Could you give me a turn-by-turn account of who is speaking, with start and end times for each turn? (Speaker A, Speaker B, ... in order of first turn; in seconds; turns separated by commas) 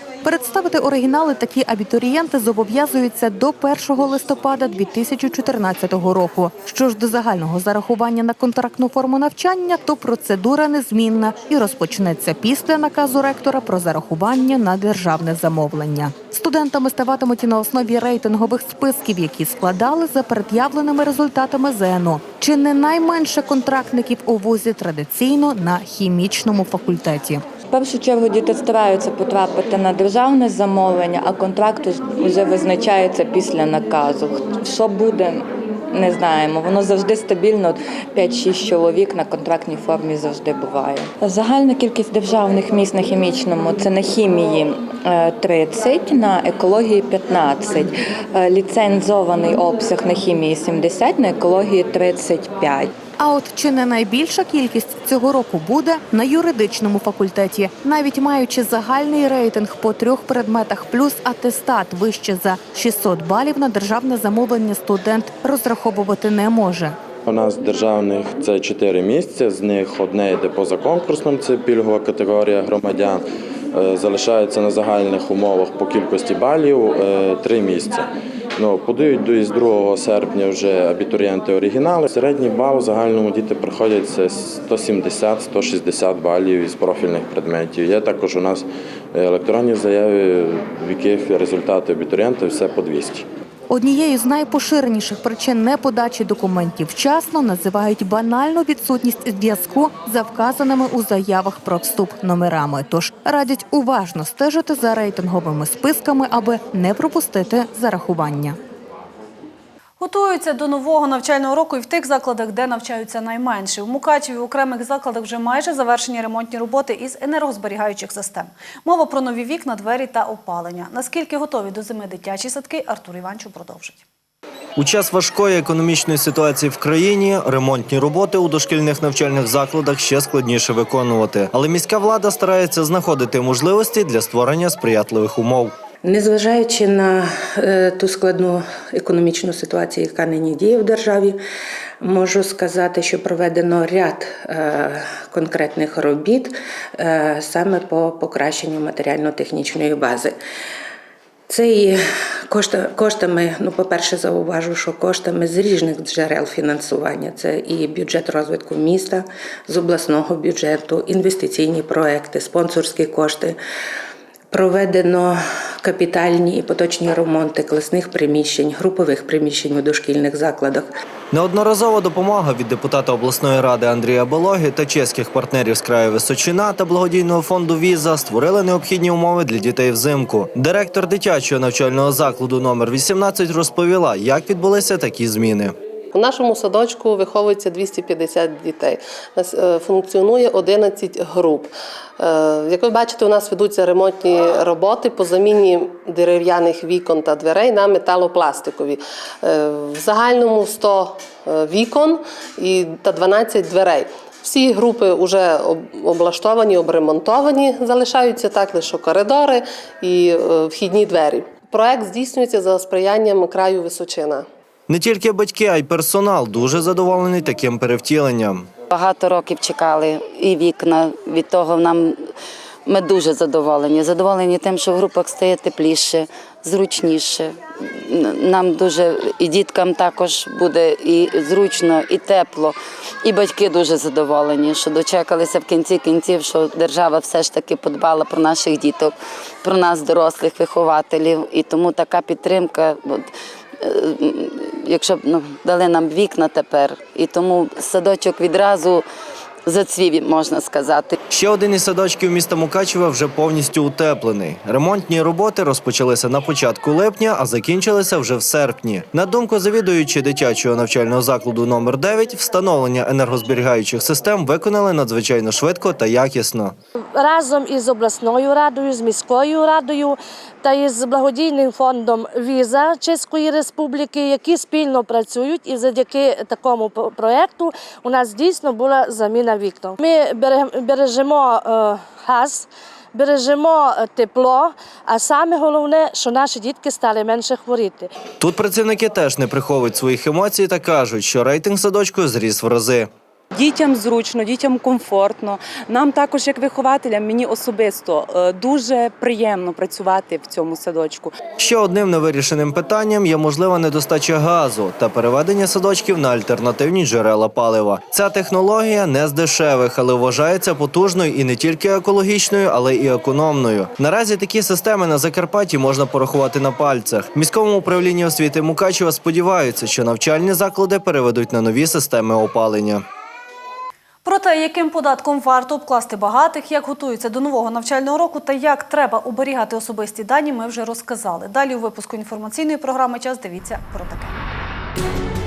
Speaker A: 0.2-27.4, Speaker B: 27.7-52.9, Speaker A: 53.2-67.0, Speaker C: 67.2-93.3, Speaker A: 93.7-108.6, Speaker D: 110.0-124.0, Speaker E: 124.8-135.8, Speaker F: 136.0-141.4, Speaker F: 142.0-150.4, Speaker F: 151.5-163.6, Speaker F: 164.5-170.9, Speaker E: 171.3-185.8, Speaker G: 186.1-214.5, Speaker E: 214.9-218.7, Speaker H: 218.9-222.3, Speaker H: 222.9-243.3, Speaker H: 243.8-249.1, Speaker H: 249.7-251.2, Speaker E: 251.3-266.8, Speaker I: 267.1-288.1, Speaker E: 288.4-293.1, Speaker J: 293.5-301.4, Speaker E: 301.6-323.1, Speaker D: 324.2-334.3